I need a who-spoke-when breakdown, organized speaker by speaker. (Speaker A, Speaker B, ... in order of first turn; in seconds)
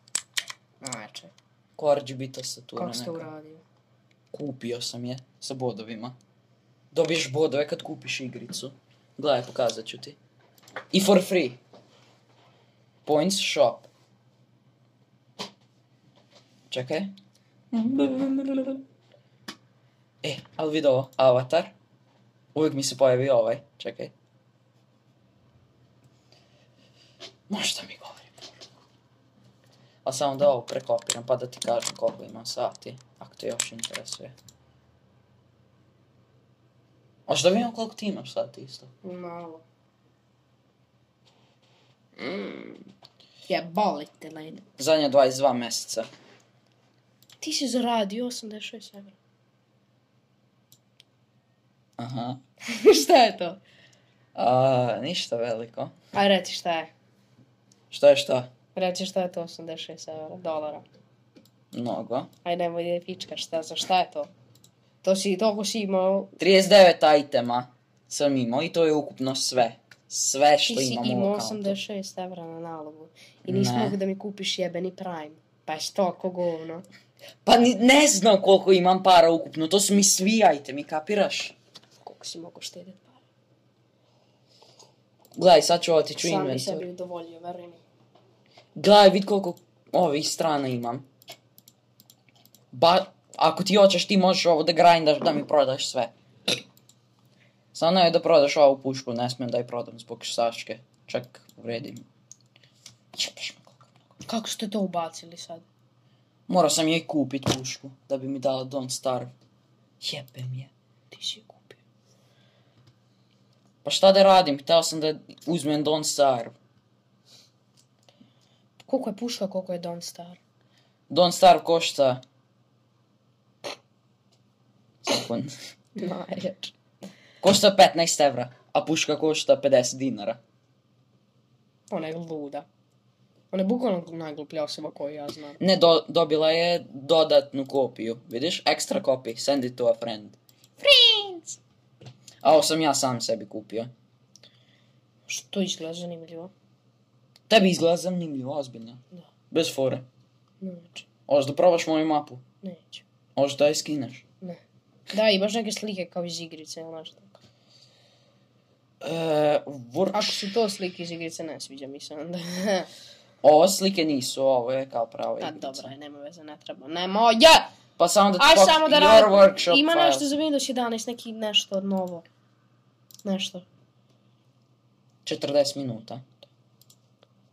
Speaker A: 0.8-1.3, 2.8-3.6, 39.0-39.6, 42.2-42.8, 43.5-44.6, 47.4-49.1, 52.6-53.6, 56.1-56.9, 58.7-60.8, 62.4-64.3, 65.0-66.3, 70.6-76.8, 82.0-83.2, 86.2-87.8, 104.2-105.6, 111.1-111.8, 118.8-120.4, 126.0-126.7, 131.9-132.7, 133.5-135.6, 145.3-146.5, 150.6-151.1, 152.6-153.0, 155.1-157.4, 160.1-162.9, 165.4-167.7, 168.4-172.2, 173.2-173.6
Speaker B: 1.8-3.3, 4.3-6.1, 6.9-10.2, 10.9-11.6, 13.1-13.9, 16.7-17.1, 17.7-18.8, 20.2-21.7, 22.5-24.1, 27.5-28.6, 30.0-34.3, 37.3-38.9, 44.8-46.1, 52.0-52.4, 54.3-55.9, 57.9-58.5, 61.7-62.3, 66.4-71.8, 73.5-74.0, 77.4-81.5, 85.3-86.9, 88.8-91.1, 92.7-96.1, 97.7-102.1, 103.1-103.9, 106.5-109.3, 110.0-110.7, 113.8-116.5, 121.1-122.2, 125.0-125.5, 127.4-130.4, 135.6-141.6, 142.4-143.9, 147.5-150.1, 151.3-152.4, 153.3-154.2, 159.0-160.5, 163.4-165.9, 168.0-170.3, 175.2-176.3